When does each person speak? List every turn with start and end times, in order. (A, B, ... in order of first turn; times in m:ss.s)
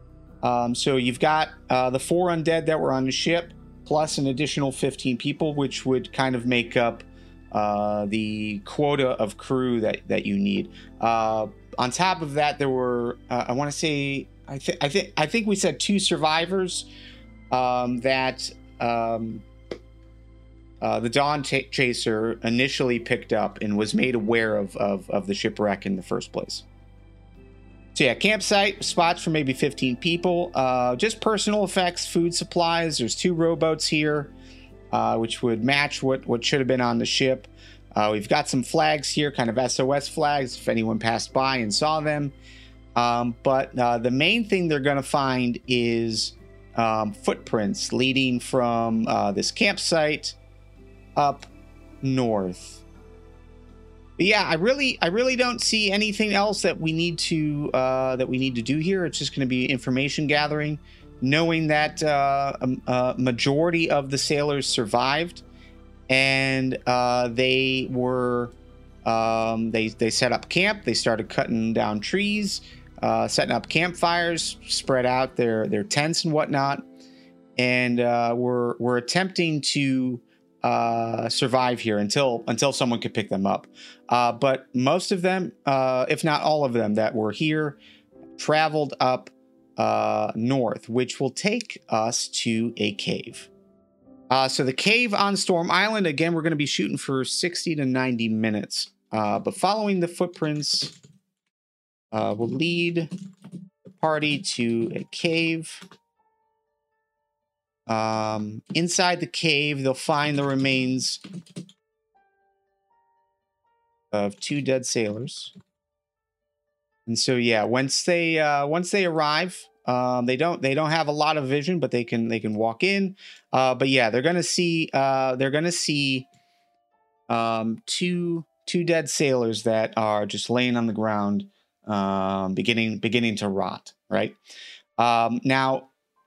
0:00.4-0:16.9 A
0:17.5-0:19.5 A
0:20.8-0:26.6 A
0:28.0-0:34.3 A
0:34.9-0:42.3 A
0:43.0-0:50.4 A
0:51.2-0:51.5 A
0:52.0-0:52.8 A
0:54.2-1:05.4 A
1:06.1-1:08.5 A
1:09.0-1:16.8 A
1:17.6-1:27.8 A
1:28.4-1:33.5 A
1:34.3-1:41.0 A
1:42.1-1:43.1 A
1:43.9-1:45.8 A
1:47.9-1:51.2 A
1:54.1-1:55.5 A
1:57.1-2:06.3 A
2:07.3-2:14.4 A
2:15.0-2:15.9 A